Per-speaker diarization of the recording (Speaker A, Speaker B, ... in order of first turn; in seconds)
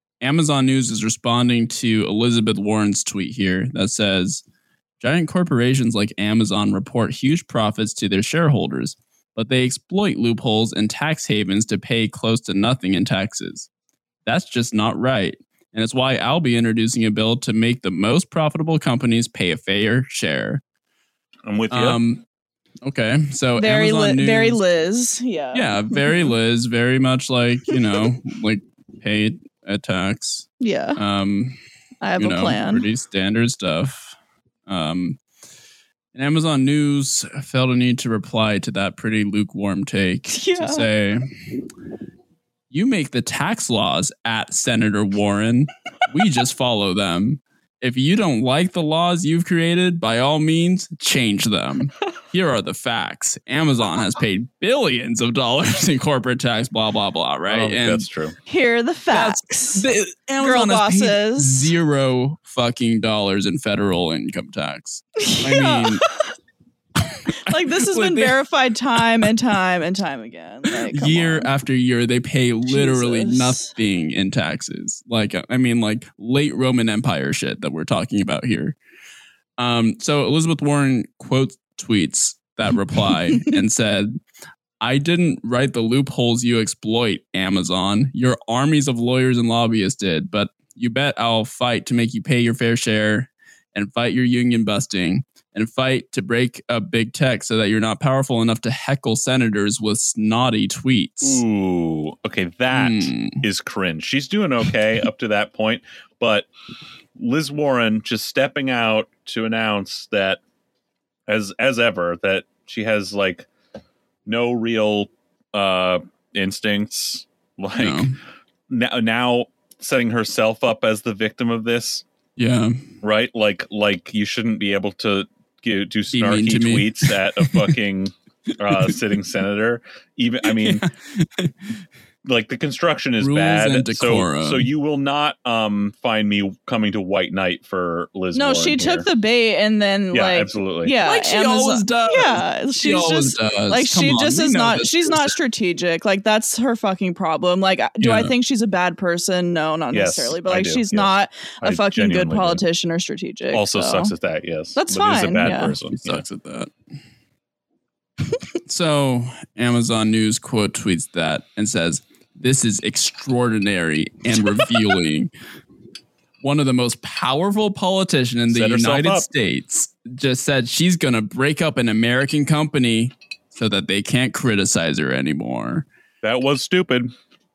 Speaker A: 0.2-4.4, 5.0-13.7, 14.3-20.6, 21.7-22.2, 22.8-24.6, 25.5-31.6, 32.2-34.1, 34.7-35.2, 36.1-41.2, 42.7-58.1, 59.1-66.0, 67.3-68.3, 70.8-78.8, 79.6-84.2, 84.8-101.4, 102.7-103.4, 117.8-118.2, 122.4-122.8, 126.1-127.7, 130.5-131.6, 133.2-134.7, 141.0-145.3, 148.0-148.3, 155.9-156.7, 158.7-165.3, 166.4-175.9
Speaker B: 21.4-22.0, 57.5-58.4, 101.2-106.5, 107.2-110.4, 111.3-113.5, 114.3-118.1, 118.7-122.0, 123.0-130.8, 132.2-139.1, 140.1-140.9, 149.9-152.6, 153.5-156.2, 168.5-169.3, 176.2-177.1
Speaker C: 23.6-26.3, 30.6-31.0, 32.0-32.9, 40.3-40.9, 58.5-59.9, 60.4-61.7, 65.2-66.2, 67.4-71.5, 72.7-73.7, 138.3-154.1, 154.8-155.7